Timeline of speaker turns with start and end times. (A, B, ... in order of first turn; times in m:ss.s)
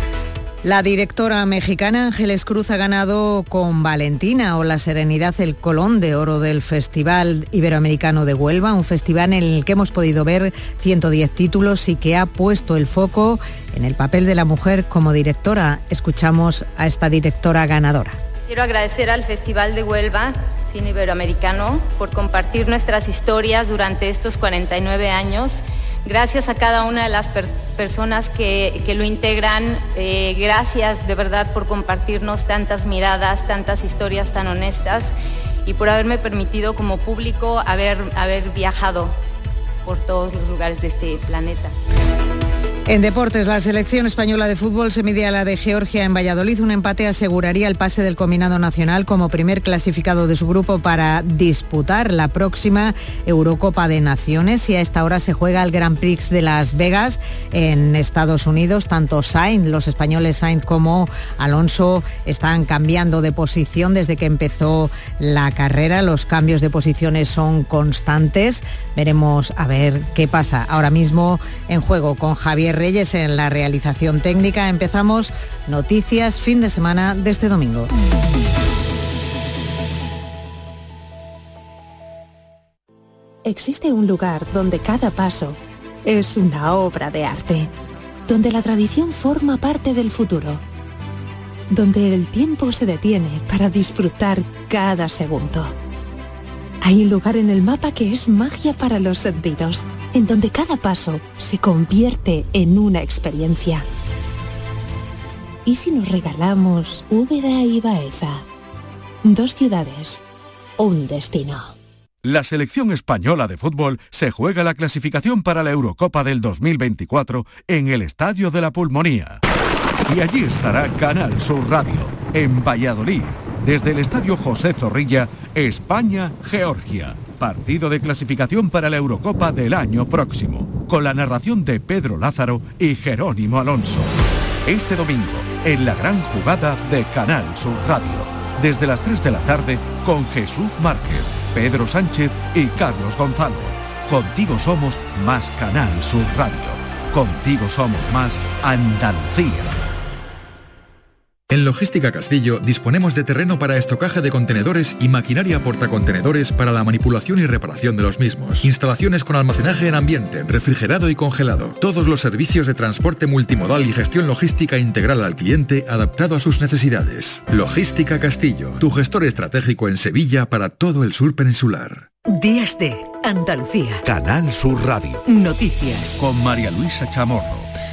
0:00.6-0:18.2 A
0:18.5-0:35.1 B
0:35.6-0:39.2 B
0:39.8-0:41.7 B
0:42.9-1:17.9 A
1:23.4-1:27.7 C
1:28.3-1:30.6 C
1:31.7-1:35.7 C
1:36.8-1:43.8 C
1:45.6-1:48.4 C
1:49.2-1:50.2 C
1:50.8-1:51.7 C
1:52.2-1:59.4 D
2:00.1-2:14.1 D
2:14.6-2:29.7 D
2:31.5-2:52.0 E
2:52.3-2:54.0 F
2:54.0-2:55.2 D
2:55.2-2:56.2 F
2:56.2-2:57.7 D